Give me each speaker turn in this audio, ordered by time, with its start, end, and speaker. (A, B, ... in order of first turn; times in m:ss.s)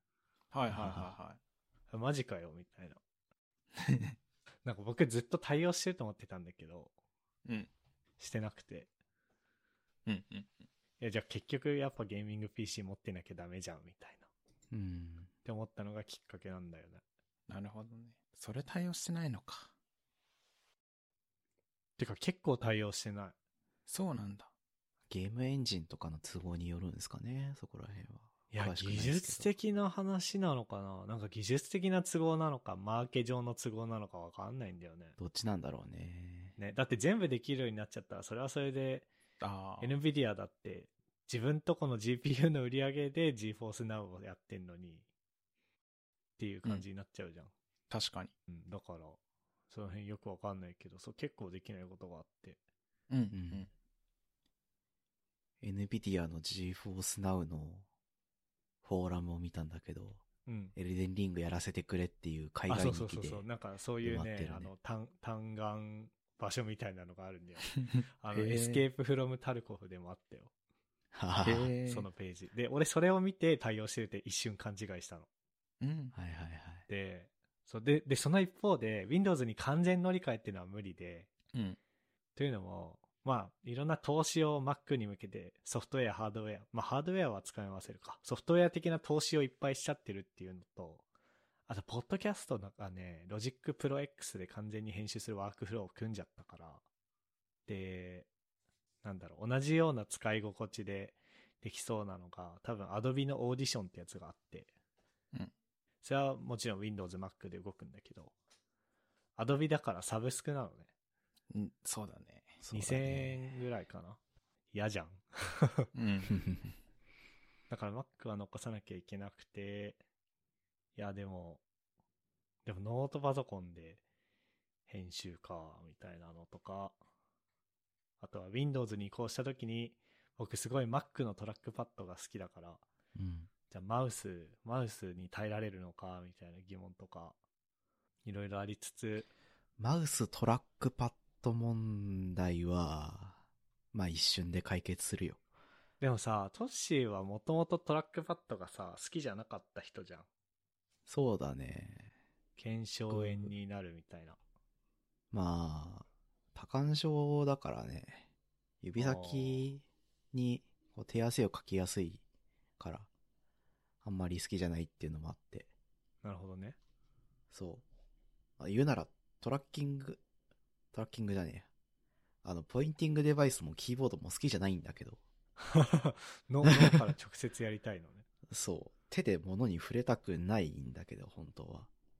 0:00.5-0:01.4 A
0:00.7-0:01.1 B
0:01.9-0:03.0 C
0:03.8-0:04.1 A
0:04.6-0:06.9 C
0:08.2-0:08.9 C
0:10.0-0:10.5 A
0:11.0-0:14.3 C
0:14.7-0:15.3 B
0:15.4-0:17.0 C
0:17.5-0:19.7 A
0:22.0-0:23.3 C
0:23.9-0:24.5 A
0:25.1-0:29.5 B
0:28.5-0:35.2 C
0:35.2-0:36.6 B
0:36.6-0:39.1 C
0:39.4-0:39.9 A
0:39.8-0:45.0 C
0:46.4-0:47.5 C
0:47.9-0:48.3 A
0:48.5-0:49.2 C
0:49.7-0:52.6 C
0:53.1-0:53.7 A
0:53.3-0:53.7 B
0:55.6-0:57.8 B
0:58.8-1:00.2 B
1:00.4-1:00.7 C
1:00.7-1:03.4 B
1:02.7-1:10.5 C
1:04.0-1:04.7 B
1:08.3-1:08.8 A
1:11.1-1:11.7 B
1:11.4-1:12.0 A
1:11.8-1:15.3 C
1:15.8-1:16.1 A
1:16.1-1:16.8 B
1:16.9-1:21.3 C
1:22.4-1:31.0 C
1:31.7-1:36.8 C
1:37.7-1:38.3 C
1:39.0-1:44.7 C
1:46.0-1:48.3 C
1:49.4-1:50.9 C
1:51.5-1:52.6 A
1:52.6-1:53.4 B
1:52.7-1:54.2 C
1:54.7-1:55.9 C
1:55.9-1:56.3 A
1:57.7-2:00.0 C
2:01.0-2:01.6 C
2:02.6-2:04.0 C
2:04.9-2:07.0 C
2:08.2-2:12.8 C
2:13.1-2:13.5 B
2:13.7-2:17.4 C
2:18.2-2:19.3 C
2:19.8-2:23.4 B
2:23.9-2:25.4 B
2:26.0-2:30.3 C
2:31.1-2:32.1 B
2:32.6-2:34.4 C
2:33.1-2:33.5 B
2:35.3-2:38.3 B
2:38.8-2:42.2 B
2:39.0-2:39.6 C
2:42.8-2:43.1 B
2:44.0-2:45.7 B
2:46.2-2:46.8 C
2:47.5-2:47.8 B
2:48.6-2:50.2 B
2:50.9-2:51.7 B
2:52.4-2:55.2 B
2:55.6-2:58.2 C
2:56.6-2:56.9 B
2:58.5-3:01.9 B